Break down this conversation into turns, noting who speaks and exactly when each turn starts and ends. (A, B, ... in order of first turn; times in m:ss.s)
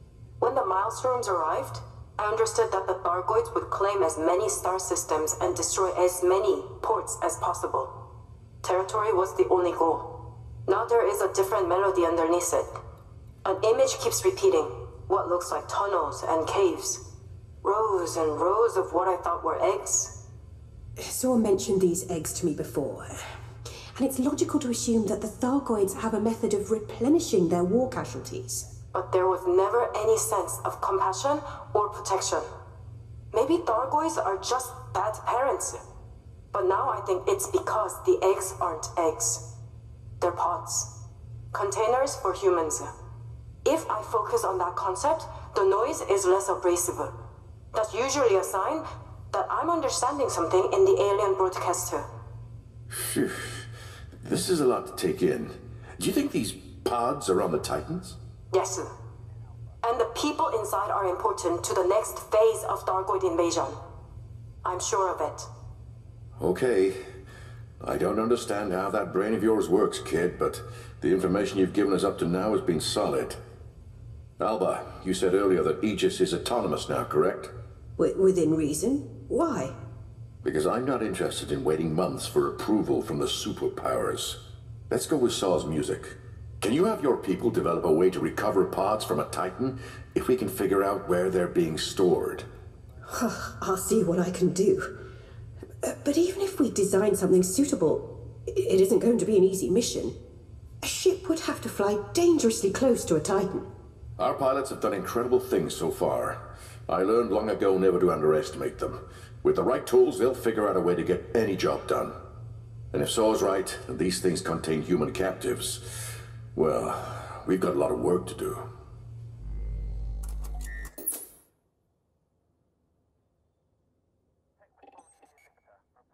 0:00.4-0:07.9 A
0:08.6-0:10.2 A
0:10.7-0:12.7 A
0:13.4-0:17.0 A
0:17.6-0:20.1 A
0:21.0-0:23.1 B
0:24.0-0:28.7 B
0:28.9-0:32.4 A
0:33.3-0:35.8 A
0:36.5-0:39.4 A
0:40.2-0:40.9 A
0:41.5-0:42.9 A
0:43.6-0:47.2 A
0:47.7-0:52.1 A
0:52.9-0:53.7 C
0:54.2-0:58.2 C
0:58.5-0:58.9 A
0:59.8-1:03.8 A
1:04.6-1:05.5 A
1:06.4-1:07.0 C
1:07.8-1:13.4 C
1:14.4-1:17.5 C
1:18.0-1:19.7 B
1:20.4-1:32.5 C
1:33.1-1:34.9 B
1:35.8-1:40.1 B
1:40.8-1:43.7 B
1:44.2-1:52.2 C
1:52.9-1:56.0 C
1:56.6-1:58.7 C